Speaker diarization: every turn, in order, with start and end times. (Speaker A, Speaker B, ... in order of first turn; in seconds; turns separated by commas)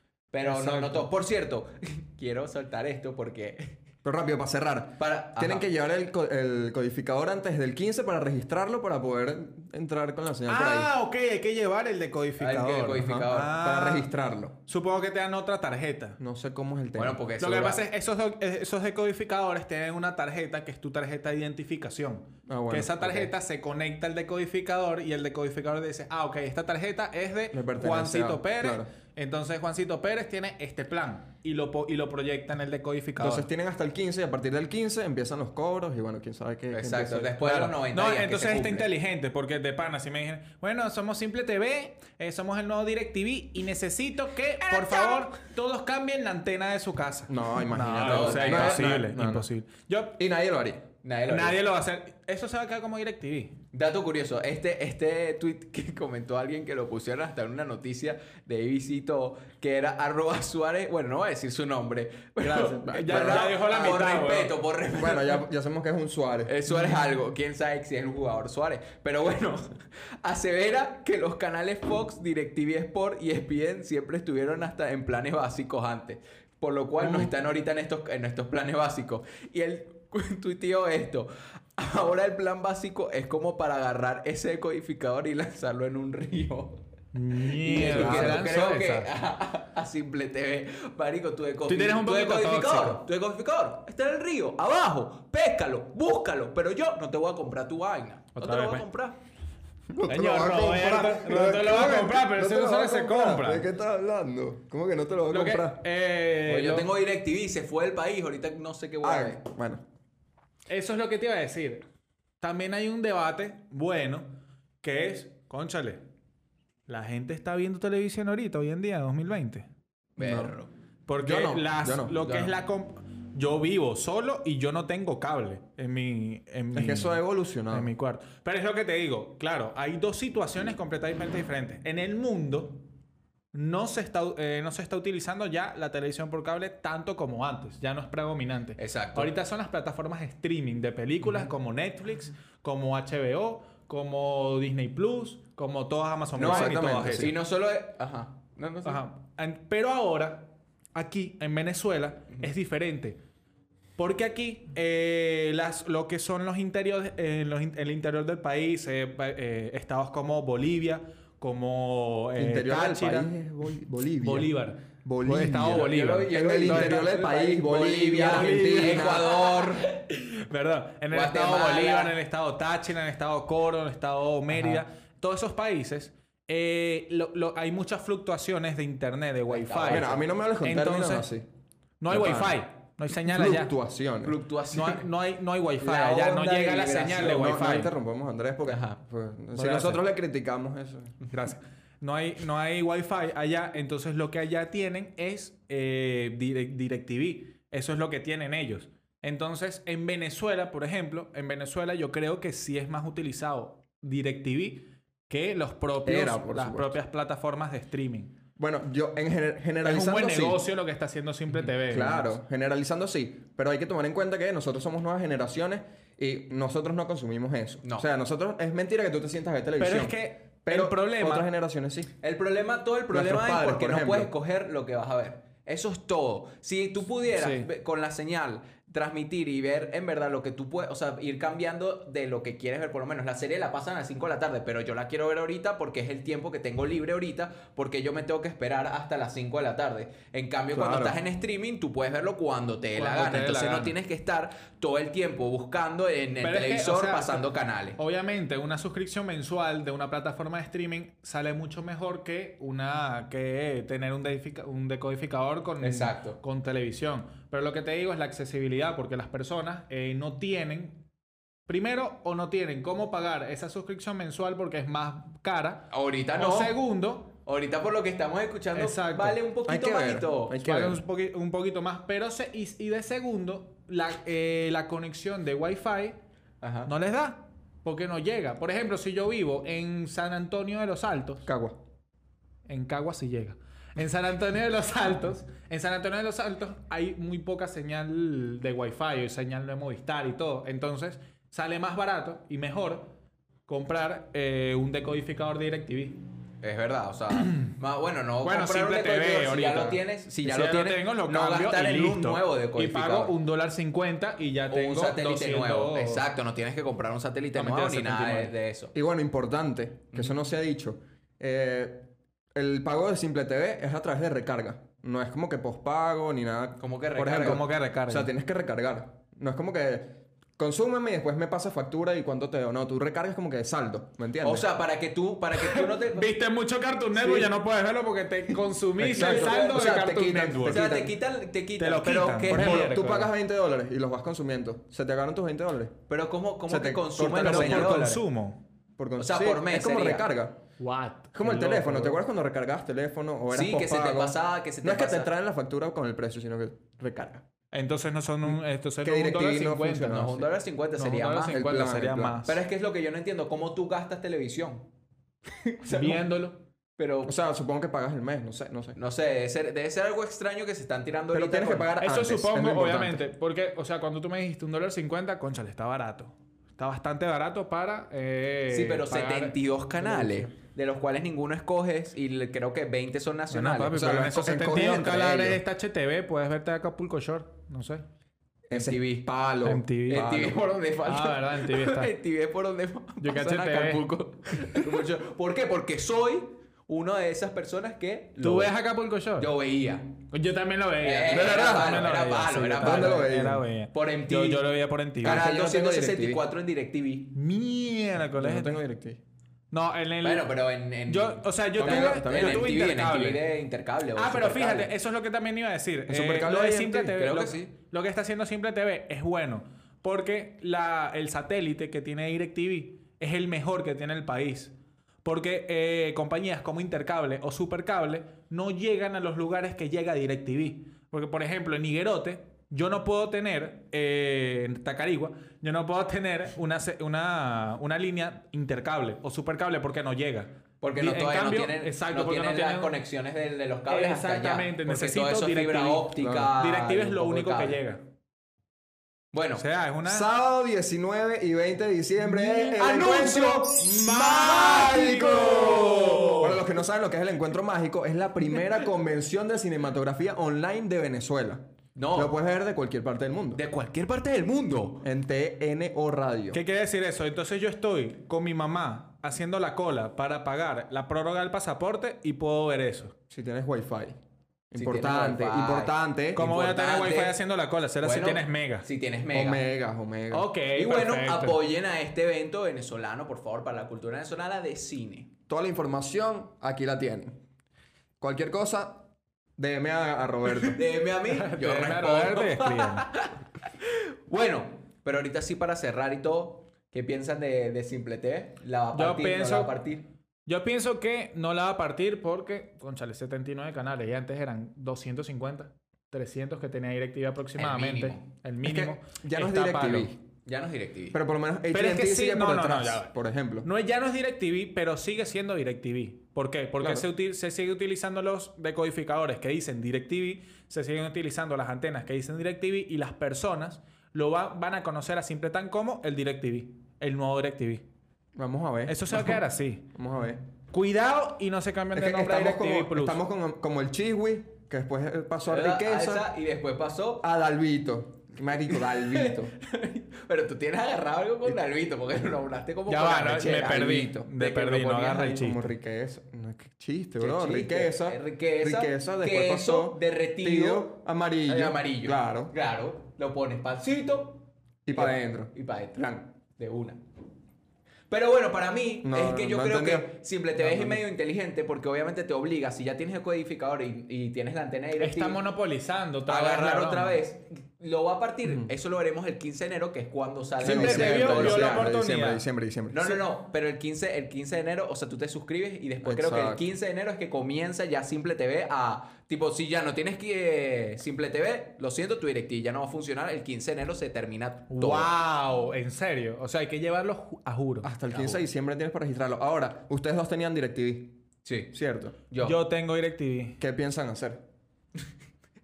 Speaker A: 0.3-3.7, Speaker B: 0.4-1.1, Speaker C: 4.0-10.9, Speaker A: 5.0-5.7, Speaker B: 10.5-14.1, Speaker A: 12.4-13.5, Speaker C: 13.0-14.6, Speaker B: 14.7-16.2, Speaker C: 16.2-17.2, Speaker A: 16.9-17.8, Speaker B: 17.4-33.5, Speaker C: 22.5-23.3, Speaker C: 27.5-28.9, Speaker C: 33.2-37.3, Speaker A: 36.7-38.9, Speaker B: 37.4-50.2, Speaker A: 44.7-45.2, Speaker C: 47.3-49.5, Speaker A: 48.0-49.0, Speaker C: 50.2-50.8, Speaker A: 51.0-51.6, Speaker B: 51.3-53.5, Speaker A: 53.7-65.4, Speaker C: 62.4-64.2, Speaker B: 62.9-64.5, Speaker C: 64.9-66.6, Speaker A: 66.5-69.7, Speaker A: 70.2-86.8, Speaker C: 77.0-77.3, Speaker B: 87.1-89.1, Speaker A: 87.6-99.2, Speaker C: 87.7-88.4, Speaker B: 91.7-93.0, Speaker B: 98.3-98.8, Speaker C: 99.9-105.8, Speaker B: 100.1-103.7, Speaker B: 105.3-106.9, Speaker A: 106.5-109.4, Speaker C: 109.0-109.8, Speaker B: 110.7-111.8, Speaker B: 112.4-114.3, Speaker B: 114.8-116.0, Speaker B: 116.9-119.7, Speaker A: 120.2-120.7, Speaker C: 120.2-120.5, Speaker B: 121.1-132.8, Speaker C: 121.2-122.3, Speaker A: 122.2-122.5, Speaker C: 126.7-127.9, Speaker B: 133.5-147.3, Speaker A: 138.8-139.3, Speaker A: 146.3-149.0, Speaker C: 146.4-147.3, Speaker B: 148.8-153.2, Speaker B: 154.0-163.3, Speaker C: 162.3-164.5, Speaker B: 164.2-167.0, Speaker C: 165.0-169.3, Speaker A: 165.7-169.9, Speaker B: 168.2-181.3, Speaker A: 171.1-172.2, Speaker A: 179.5-180.2, Speaker C: 179.9-181.4, Speaker B: 182.0-183.7, Speaker C: 182.1-182.6, Speaker C: 183.2-184.3, Speaker A: 184.2-185.1, Speaker B: 184.7-187.9, Speaker A: 185.8-187.6, Speaker C: 187.2-191.1, Speaker A: 188.7-189.0, Speaker B: 189.5-190.0, Speaker B: 191.3-208.3, Speaker C: 206.0-206.9, Speaker C: 208.6-210.6, Speaker B: 209.8-212.3, Speaker C: 211.8-222.1, Speaker B: 219.8-221.5, Speaker A: 222.2-248.0, Speaker C: 223.1-224.3, Speaker B: 227.3-227.7, Speaker C: 240.7-241.2, Speaker B: 242.9-243.9, Speaker B: 246.4-247.4, Speaker B: 248.0-261.0, Speaker A: 255.8-256.4, Speaker B: 261.7-267.3, Speaker A: 265.9-266.8, Speaker A: 267.4-270.6, Speaker B: 268.7-269.4, Speaker C: 269.7-271.0, Speaker B: 270.5-276.2, Speaker A: 276.6-276.9, Speaker B: 276.9-281.5, Speaker C: 281.4-281.8, Speaker B: 282.7-293.1, Speaker B: 293.7-296.2, Speaker A: 296.6-303.4, Speaker B: 297.4-297.7, Speaker B: 298.4-306.2, Speaker A: 304.7-308.9, Speaker B: 307.5-308.5, Speaker C: 308.9-324.6, Speaker A: 310.1-310.4, Speaker A: 316.8-317.6, Speaker B: 317.3-318.3, Speaker A: 324.4-326.3, Speaker B: 325.5-330.9, Speaker C: 329.0-331.1, Speaker A: 329.1-330.0, Speaker A: 330.6-332.9, Speaker B: 331.8-333.3, Speaker C: 332.4-336.0, Speaker A: 336.1-338.2, Speaker C: 336.7-338.1, Speaker B: 337.3-338.6, Speaker C: 339.0-340.6, Speaker A: 339.2-340.2, Speaker B: 340.8-342.2, Speaker C: 341.3-347.4, Speaker A: 343.5-345.3, Speaker B: 347.7-350.4, Speaker C: 348.4-350.4, Speaker A: 350.0-351.6, Speaker B: 351.0-352.6, Speaker C: 351.5-352.4, Speaker A: 352.4-354.9, Speaker A: 355.6-356.2, Speaker B: 355.9-356.6, Speaker A: 357.0-357.3, Speaker C: 357.2-359.0, Speaker A: 358.9-361.9, Speaker C: 361.3-363.2, Speaker B: 362.0-370.5, Speaker A: 368.7-374.0, Speaker B: 373.5-378.0, Speaker C: 373.9-375.6, Speaker C: 378.7-380.6, Speaker A: 378.7-379.3, Speaker B: 379.6-380.3, Speaker A: 380.1-388.7, Speaker B: 381.0-382.1, Speaker B: 383.2-384.1, Speaker B: 388.4-389.5, Speaker A: 389.4-390.1, Speaker B: 390.3-395.4, Speaker A: 391.0-393.3, Speaker C: 391.3-392.0, Speaker C: 392.8-393.6, Speaker A: 393.9-397.3, Speaker C: 395.2-396.4, Speaker B: 397.3-398.8, Speaker C: 398.2-399.2, Speaker B: 399.7-400.5, Speaker A: 400.2-404.9, Speaker B: 401.1-403.4, Speaker C: 401.8-402.7, Speaker B: 404.1-433.0, Speaker C: 406.1-407.2, Speaker A: 407.1-407.7, Speaker A: 430.8-437.8, Speaker B: 433.9-438.0, Speaker C: 436.2-436.5, Speaker A: 439.3-439.6, Speaker B: 439.5-440.2, Speaker C: 440.0-453.6, Speaker A: 442.5-446.5, Speaker B: 444.4-446.6, Speaker A: 451.9-452.3, Speaker A: 453.5-455.0, Speaker C: 455.0-456.6, Speaker B: 456.5-463.1, Speaker C: 463.3-464.1, Speaker C: 464.7-466.4, Speaker A: 464.8-467.4, Speaker B: 466.3-468.9, Speaker A: 468.0-469.6, Speaker C: 469.3-470.5, Speaker B: 470.3-471.6, Speaker A: 470.7-475.3, Speaker C: 475.5-477.4, Speaker C: 478.2-479.1, Speaker C: 479.6-480.8, Speaker A: 480.7-490.0, Speaker B: 481.2-483.1, Speaker B: 488.9-489.7, Speaker B: 490.4-500.1, Speaker A: 497.6-498.2, Speaker C: 498.6-500.2, Speaker A: 500.4-501.1, Speaker C: 501.1-503.7, Speaker B: 501.7-503.1, Speaker B: 503.6-517.8, Speaker C: 506.8-507.1, Speaker C: 518.4-520.4, Speaker B: 518.9-519.9, Speaker B: 520.7-523.2, Speaker C: 521.9-526.3, Speaker A: 525.5-527.2, Speaker C: 527.2-529.5, Speaker A: 528.7-535.4, Speaker B: 532.9-535.7, Speaker C: 535.3-542.5, Speaker A: 537.2-540.9, Speaker A: 541.5-547.0, Speaker C: 544.9-546.2, Speaker A: 548.1-555.4, Speaker C: 549.0-551.0, Speaker B: 555.0-557.2, Speaker A: 556.3-561.9, Speaker C: 560.6-563.2, Speaker B: 560.6-562.4, Speaker A: 562.9-575.1, Speaker C: 566.0-566.6, Speaker B: 574.7-577.9, Speaker C: 577.8-581.2, Speaker A: 578.1-578.4, Speaker A: 581.4-581.7, Speaker C: 581.7-582.1, Speaker A: 582.3-582.6, Speaker B: 582.4-583.6, Speaker C: 583.6-584.4